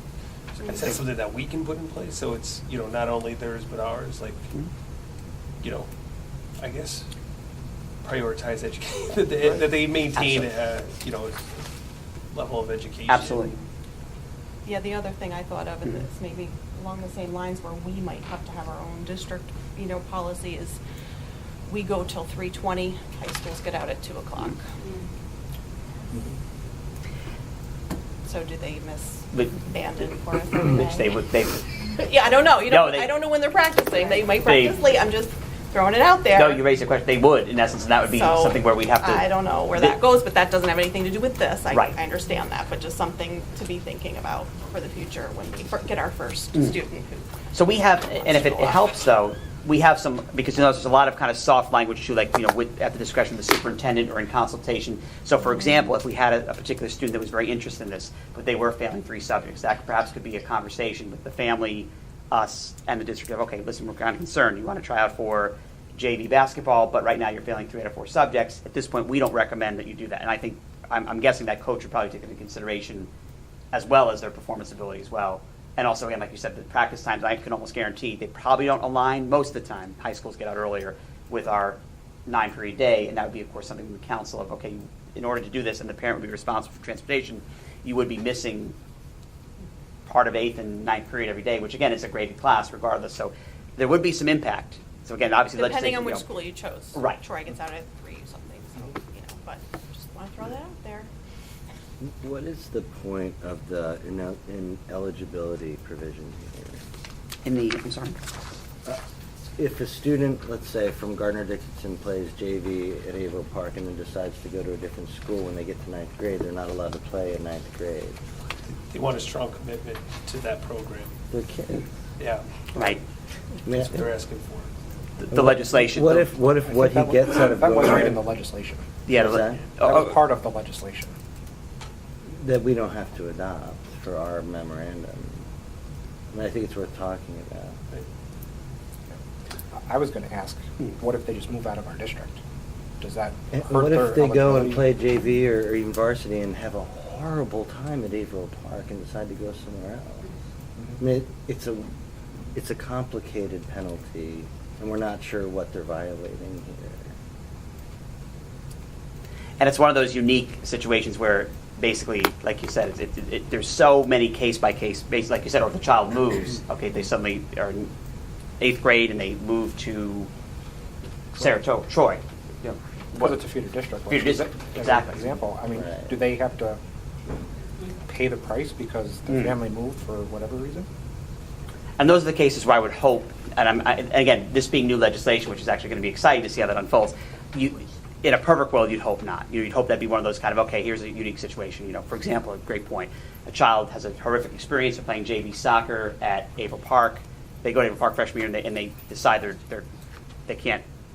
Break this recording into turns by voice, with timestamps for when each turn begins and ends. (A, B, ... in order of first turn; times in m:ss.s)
0:00.6-0:04.5 A
0:05.6-0:05.9 A
0:06.6-0:07.1 A
0:08.0-0:11.6 A
0:10.2-0:10.5 B
0:12.3-0:13.7 A
0:13.1-0:13.5 B
0:14.6-0:20.8 C
0:21.7-0:24.6 C
0:28.3-0:31.1 C
0:30.6-0:31.7 B
0:31.9-0:36.6 C
0:32.6-0:33.1 B
0:34.4-0:34.8 B
0:36.3-0:40.0 B
0:38.1-0:47.3 C
0:41.7-0:42.0 B
0:47.5-1:13.1 B
0:48.1-0:48.8 C
1:13.7-1:28.8 B
1:30.1-1:36.2 B
1:35.5-1:41.1 C
1:36.9-1:37.2 B
1:42.0-1:46.8 D
1:47.4-1:48.2 B
1:49.6-1:58.2 D
1:58.7-2:01.1 A
2:01.3-2:01.9 D
2:02.2-2:03.0 A
2:02.8-2:03.0 B
2:03.7-2:04.0 D
2:03.7-2:04.7 A
2:05.2-2:06.3 B
2:05.3-2:08.2 D
2:06.8-2:08.8 E
2:09.1-2:10.2 B
2:09.1-2:09.6 D
2:10.2-2:11.2 E
2:12.3-2:15.4 D
2:16.3-2:17.8 D
2:19.9-2:22.4 E
2:23.0-2:24.8 E
2:23.5-2:30.3 D
2:31.0-2:31.9 D
2:32.5-2:37.1 D
2:39.6-2:47.9 B
2:48.6-2:50.3 B
2:51.4-2:53.6 B
2:53.4-2:56.8 E
2:54.1-2:55.3 B
2:55.7-2:56.1 D
2:58.1-3:00.9 E
2:59.3-2:59.6 B
3:02.0-3:19.8 B
3:20.5-3:20.8 B